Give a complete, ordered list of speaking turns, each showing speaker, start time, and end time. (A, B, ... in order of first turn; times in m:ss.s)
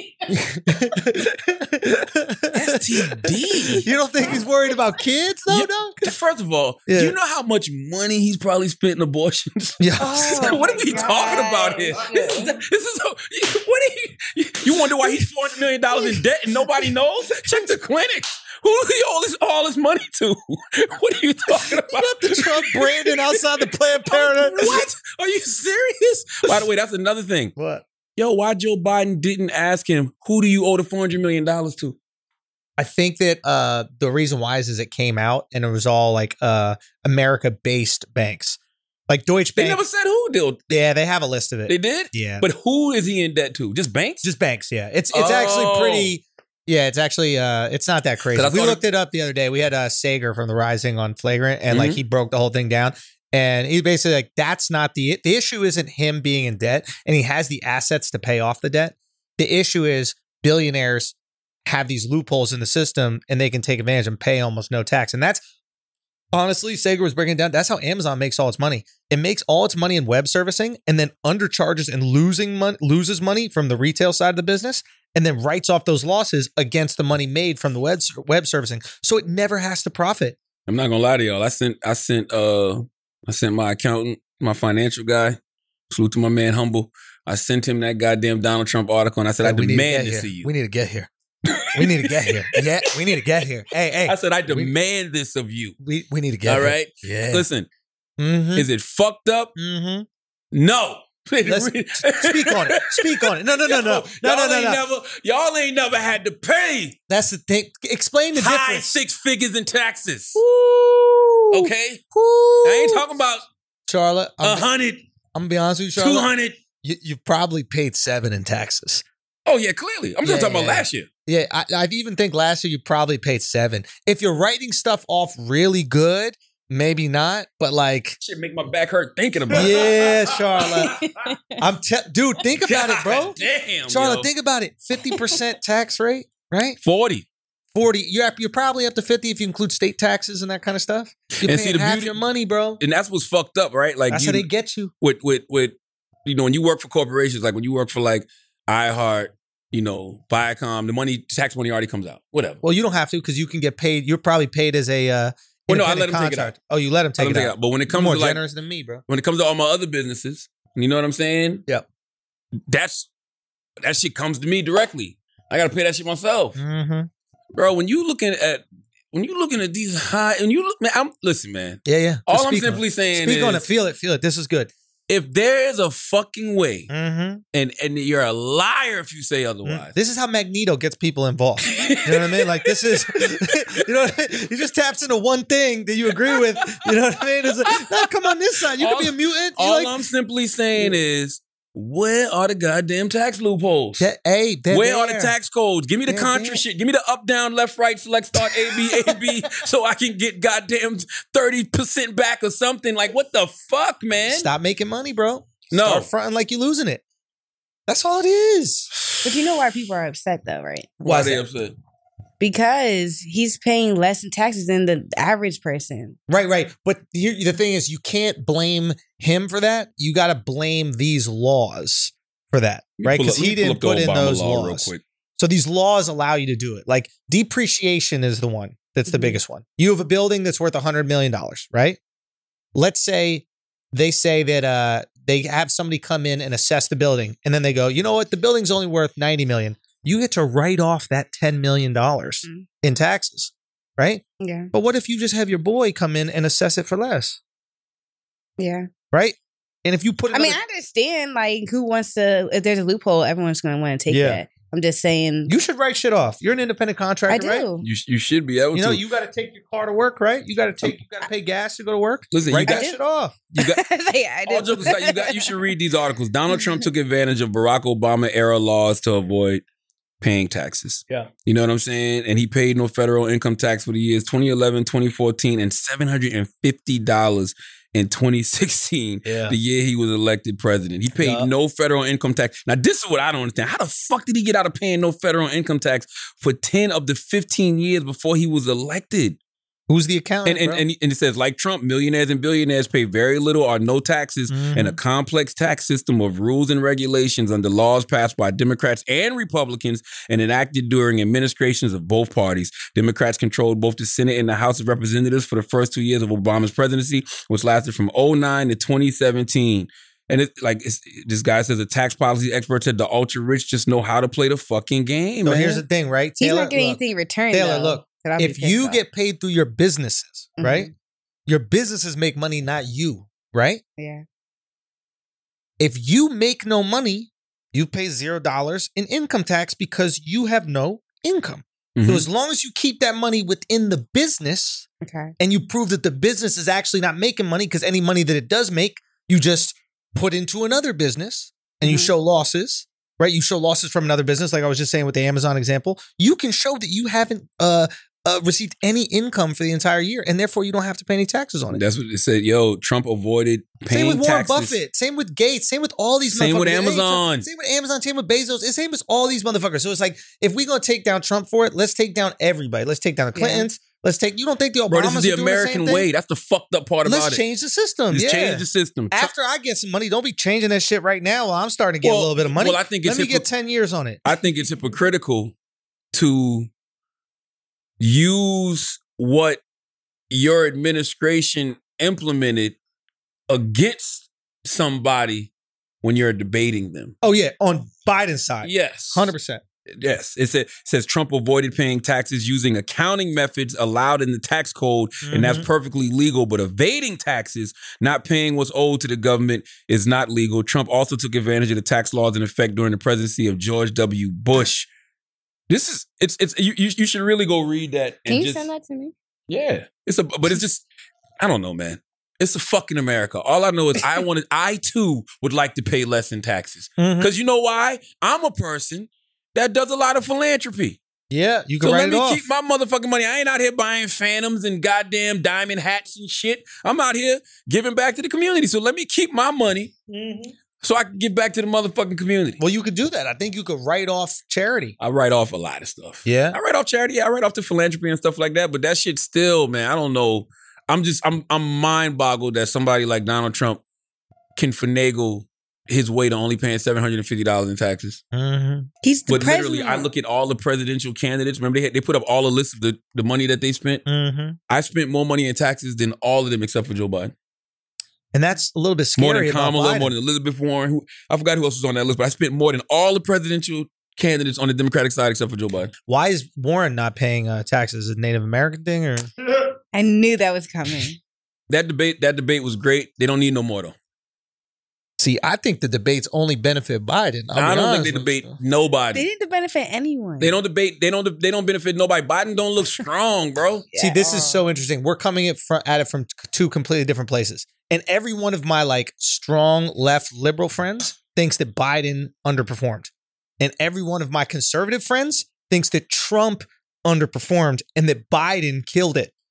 0:00.3-0:06.0 A
0:02.5-0:03.8 B
0:03.8-0:04.4 C
0:05.5-0:23.4 B
0:06.9-0:07.1 A
0:09.8-0:10.6 A
0:10.0-0:12.6 C
0:21.6-0:24.8 A
0:24.0-0:27.5 B
0:27.6-0:27.8 A
0:28.2-0:32.0 B
0:32.8-0:38.6 A
0:39.1-0:39.8 A
0:39.6-0:40.7 B
0:40.7-0:42.4 A
0:41.7-0:44.3 B
0:44.2-1:05.4 A
0:45.1-0:46.1 B
0:48.3-0:48.8 B
0:51.7-0:52.0 B
1:06.3-1:20.4 A
1:20.7-1:25.4 B
1:25.9-1:30.5 B
1:29.4-1:31.1 A
1:31.5-1:33.2 B
1:31.7-1:34.7 A
1:34.0-1:35.8 B
1:35.8-1:37.4 A
1:36.4-1:37.7 B
1:38.2-1:38.6 A
1:38.6-1:39.5 B
1:39.6-1:40.0 A
1:40.5-1:47.0 B
1:41.4-1:44.8 A
1:47.1-1:48.9 A
1:48.3-1:50.4 B
1:50.4-1:53.0 A
1:51.5-1:52.0 B
1:52.6-1:53.4 B
1:53.9-1:54.7 A
1:54.4-1:55.0 B
1:55.3-1:56.3 A
1:56.0-1:56.6 B
1:56.8-1:59.0 A
1:59.4-2:01.1 B
2:00.2-2:08.2 A
2:08.2-2:11.0 B
2:09.5-2:11.0 A
2:10.8-2:11.6 C
2:11.6-2:13.4 A
2:12.6-2:14.3 B
2:13.9-2:16.8 A
2:15.1-2:15.4 C
2:16.8-2:17.3 B
2:17.7-2:22.8 A
2:21.4-2:22.2 B
2:22.8-2:24.5 B
2:24.1-2:24.9 A
2:25.0-2:32.6 B
2:32.6-2:39.0 A
2:35.7-2:36.5 B
2:37.2-2:38.4 B
2:39.1-2:41.6 B
2:42.7-2:43.1 B
2:43.8-2:46.6 B
2:46.6-2:47.1 A
2:47.5-2:53.6 B
2:51.8-2:54.7 A
2:55.1-2:56.9 B
2:56.9-2:57.4 A
2:57.5-2:59.9 B
2:59.6-3:09.9 A
3:01.6-3:03.7 B
3:06.3-3:06.8 B
3:07.7-3:08.0 B
3:08.8-3:14.1 B
3:14.0-3:15.3 A
3:14.7-3:24.5 B
3:16.1-3:16.6 A
3:18.4-3:19.6 A
3:24.2-3:27.0 A
3:25.7-3:26.1 B
3:27.9-3:28.9 A
3:29.2-3:31.0 C
3:31.0-3:31.7 B
3:31.0-3:31.4 A
3:32.4-3:36.2 C
3:36.3-3:52.0 A
3:43.0-3:45.0 B
3:49.1-3:49.4 C
3:52.7-4:07.4 A
4:04.4-4:04.7 C
4:08.6-4:08.9 C
4:09.1-4:10.6 A
4:10.3-4:15.5 C
4:14.1-4:14.4 A
4:15.5-4:17.6 A
4:17.3-4:17.8 C
4:17.8-4:19.0 B
4:18.7-4:23.5 A
4:22.3-4:22.9 B
4:22.7-4:23.0 C
4:23.6-4:25.5 C
4:24.5-4:29.6 B
4:26.5-4:26.8 C
4:30.2-4:49.4 B
4:39.2-4:39.6 A
4:41.2-4:41.5 A
4:49.9-4:50.8 A
4:50.4-5:15.8 B
4:54.5-4:55.0 A
5:15.4-5:17.0 A
5:16.4-5:19.0 C
5:17.5-5:20.9 A
5:20.6-5:20.9 C
5:21.5-5:23.8 A
5:24.0-5:24.2 C
5:25.8-5:34.9 A
5:32.0-5:32.2 B
5:35.0-5:35.3 C
5:35.4-5:51.8 A
5:41.8-5:42.1 C
5:51.7-5:54.8 B
5:53.9-6:06.1 A
5:56.3-5:57.5 B
6:03.3-6:03.7 C
6:04.9-6:07.4 B
6:07.0-6:14.2 A
6:08.1-6:09.3 B
6:12.0-6:13.5 B
6:14.2-6:15.5 B
6:16.1-6:16.7 B
6:18.0-6:19.6 B
6:20.3-6:22.8 B
6:23.5-6:25.5 B
6:26.0-6:27.1 B
6:27.2-6:29.6 A
6:28.6-6:29.3 B
6:29.9-6:44.9 B
6:35.2-6:35.6 A
6:45.7-6:48.7 B
6:48.3-6:49.1 C
6:49.5-6:50.8 B
6:51.4-7:01.0 B
6:57.0-6:57.3 A
7:01.3-7:02.5 A
7:01.8-7:09.9 B
7:10.1-7:10.5 A
7:10.8-7:12.6 B
7:12.6-7:15.0 A
7:15.0-7:23.8 B
7:16.2-7:16.6 A
7:24.6-7:28.2 B
7:28.3-7:28.9 A
7:29.0-7:30.1 C
7:29.3-7:34.0 B
7:34.0-7:34.6 A
7:34.7-7:37.3 B
7:38.3-7:40.1 A
7:39.2-7:45.9 B
7:46.1-7:49.3 A
7:49.9-7:51.2 C
7:51.7-7:53.9 B
7:55.2-7:58.6 A
7:57.5-7:59.2 B
7:59.1-8:00.5 C
8:00.4-8:03.9 B
8:03.9-8:04.6 C
8:04.0-8:19.3 A